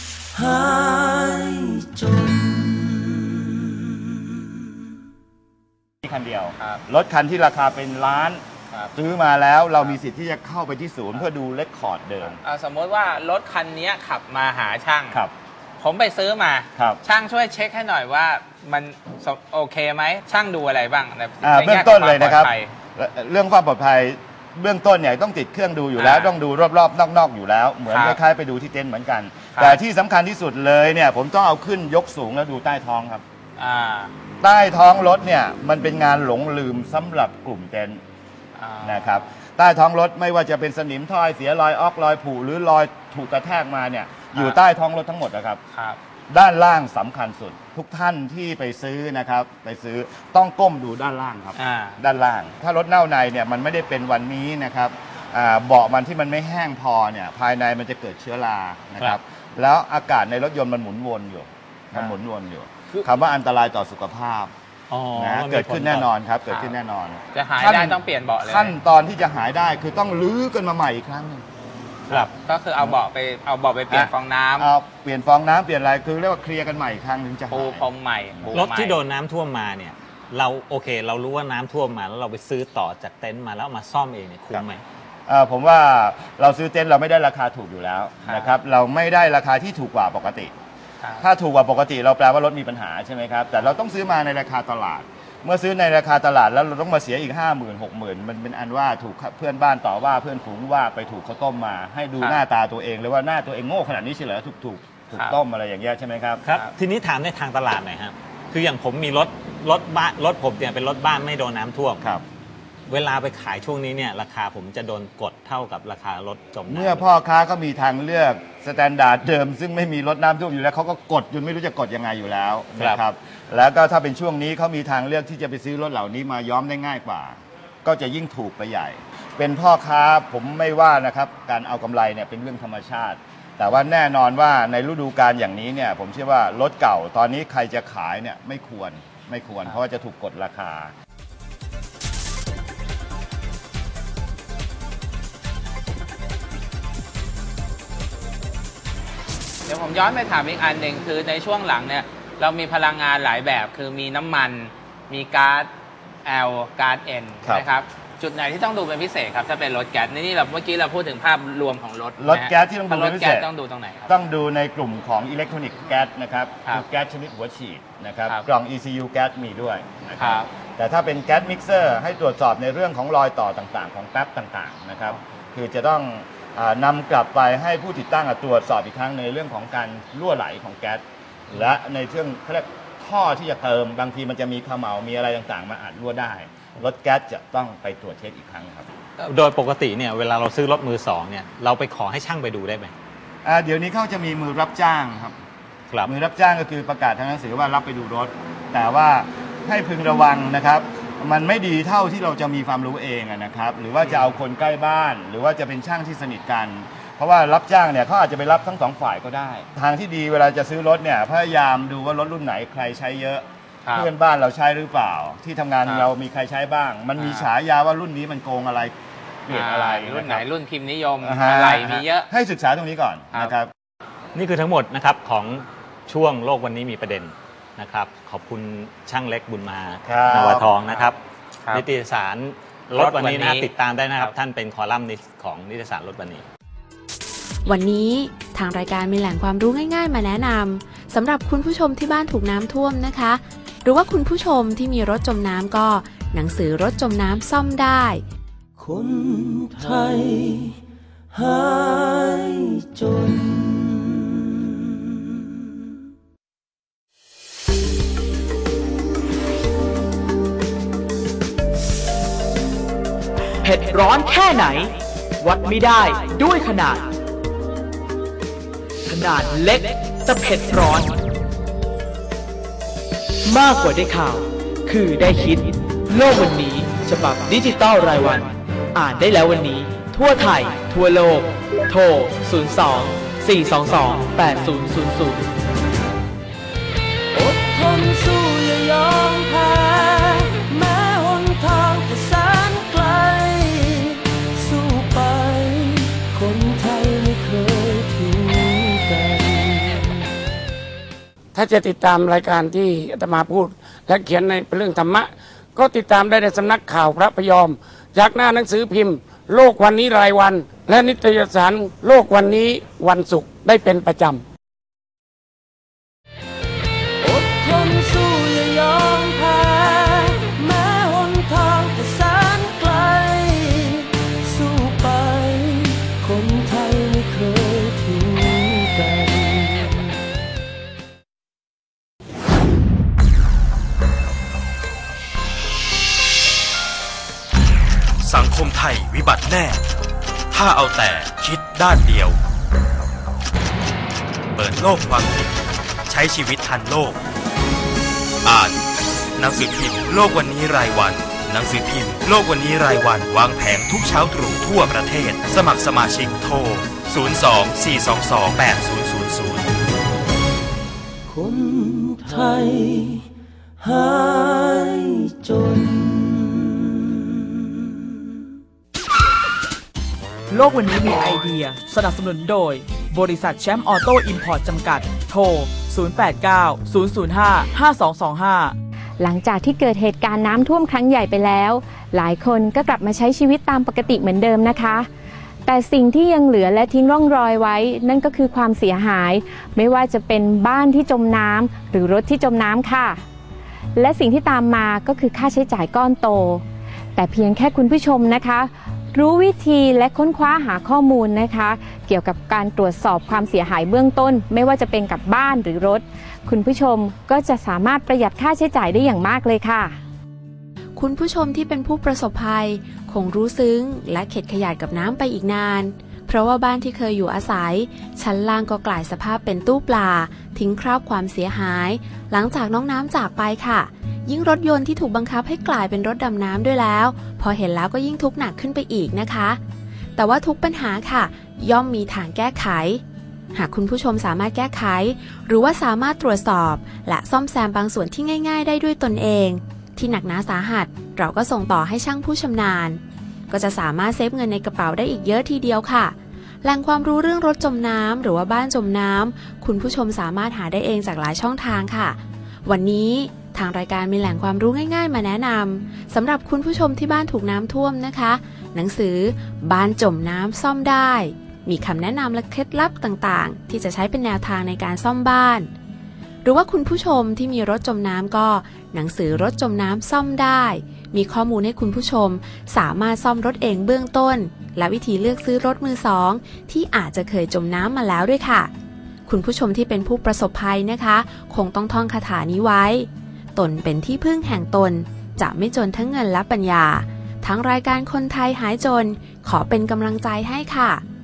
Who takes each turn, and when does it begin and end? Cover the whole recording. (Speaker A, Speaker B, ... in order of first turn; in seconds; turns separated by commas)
Speaker A: 0.3-4.2, Speaker B: 6.0-8.4, Speaker B: 8.9-12.4, Speaker C: 12.4-15.2, Speaker C: 15.8-22.7, Speaker B: 16.7-17.0, Speaker B: 21.4-33.2, Speaker C: 25.9-26.4, Speaker C: 27.9-28.2, Speaker C: 29.5-29.8, Speaker C: 33.6-34.1, Speaker B: 34.4-38.0, Speaker C: 38.6-39.2, Speaker B: 38.8-45.6, Speaker B: 46.3-64.5, Speaker C: 51.6-52.0, Speaker D: 64.9-66.1, Speaker B: 65.2-71.4, Speaker C: 66.5-66.7, Speaker C: 67.3-68.7, Speaker C: 72.2-74.7, Speaker B: 73.9-78.6, Speaker C: 77.5-79.0, Speaker D: 78.5-84.8, Speaker B: 85.3-90.5, Speaker C: 88.2-88.5, Speaker B: 91.2-106.4, Speaker D: 106.4-112.0, Speaker D: 112.9-117.1, Speaker B: 116.7-140.9, Speaker C: 149.7-155.7, Speaker C: 156.2-164.1, Speaker B: 162.2-163.5, Speaker B: 164.1-188.8, Speaker C: 170.2-170.5, Speaker D: 189.2-192.9, Speaker B: 193.4-195.4, Speaker B: 196.0-218.9, Speaker C: 217.2-217.5, Speaker B: 219.5-220.4, Speaker C: 219.5-222.3, Speaker B: 221.2-223.7, Speaker D: 224.3-231.2, Speaker B: 230.0-230.7, Speaker D: 231.7-236.4, Speaker C: 232.9-234.3, Speaker E: 237.6-248.2, Speaker A: 248.8-250.8, Speaker A: 251.3-254.3, Speaker F: 263.6-264.9, Speaker F: 265.4-267.0, Speaker F: 269.1-271.1, Speaker F: 273.5-278.4, Speaker F: 278.9-285.4, Speaker A: 287.3-300.2, Speaker G: 301.5-314.4, Speaker A: 317.2-329.9, Speaker H: 338.2-339.7, Speaker H: 340.5-342.3, Speaker H: 344.6-345.5, Speaker H: 346.4-346.9, Speaker H: 350.8-358.4, Speaker A: 361.3-363.2, Speaker A: 363.8-368.0, Speaker F: 370.5-378.7, Speaker I: 379.2-385.1, Speaker I: 385.6-393.2, Speaker I: 393.9-396.6, Speaker I: 397.1-410.0, Speaker E: 410.9-429.6, Speaker E: 430.2-433.0, Speaker E: 433.5-465.7, Speaker E: 466.4-478.7, Speaker E: 479.3-491.0